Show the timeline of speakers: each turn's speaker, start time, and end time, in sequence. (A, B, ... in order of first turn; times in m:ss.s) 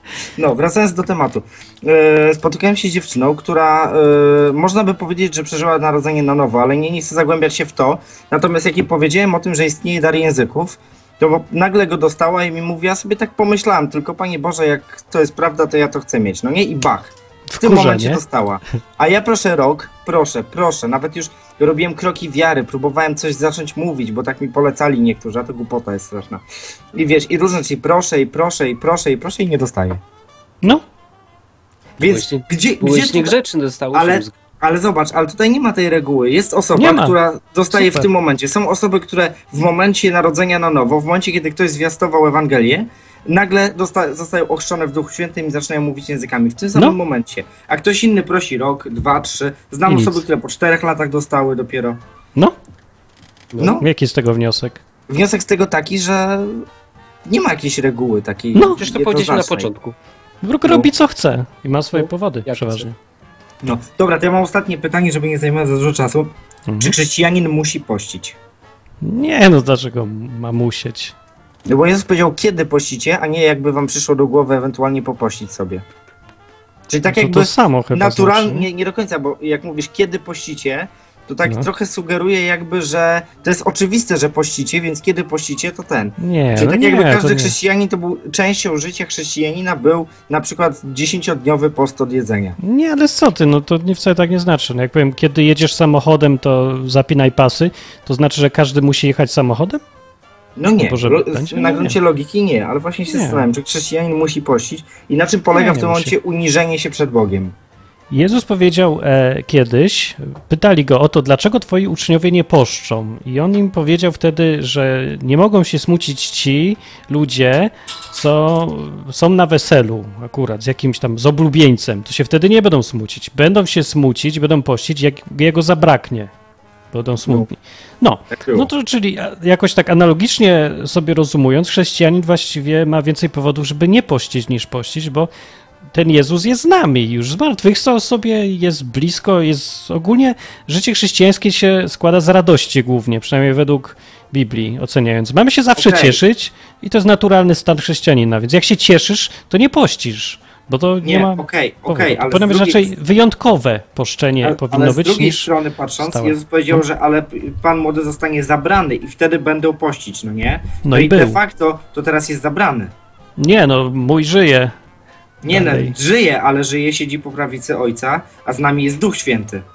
0:00.4-0:26.4 A
0:17.5-0:18.2 B
0:26.9-0:30.0 A
0:32.0-0:33.3 A
0:32.0-0:34.3 C
0:33.9-0:52.0 A
0:36.7-0:37.2 B
0:37.7-0:38.1 B
0:49.9-0:50.2 B
0:53.5-0:53.8 C
0:53.6-0:53.9 A
0:53.8-0:54.8 B
0:55.1-0:56.6 A
0:57.2-0:59.7 A
0:58.6-0:58.8 B
0:58.8-1:00.0 C
1:00.4-1:03.0 B
1:00.6-1:00.9 A
1:01.9-1:02.9 C
1:03.6-1:08.4 A
1:06.7-1:06.9 B
1:09.0-1:11.1 B
1:11.7-1:15.8 A
1:16.9-1:18.7 B
1:16.9-1:32.6 A
1:26.2-1:27.6 B
1:32.6-1:39.8 B
1:40.6-1:47.5 A
1:40.7-1:42.0 B
1:43.1-1:43.4 B
1:45.5-1:46.1 B
1:48.1-2:06.3 B
2:06.9-2:15.3 B
2:08.3-2:08.7 A
2:15.9-2:36.8 B
2:25.8-2:26.2 A
2:31.0-2:32.9 A
2:34.4-2:42.9 A
2:40.8-2:41.4 B
2:43.4-2:44.7 B
2:45.4-2:49.6 A
2:45.5-2:46.0 B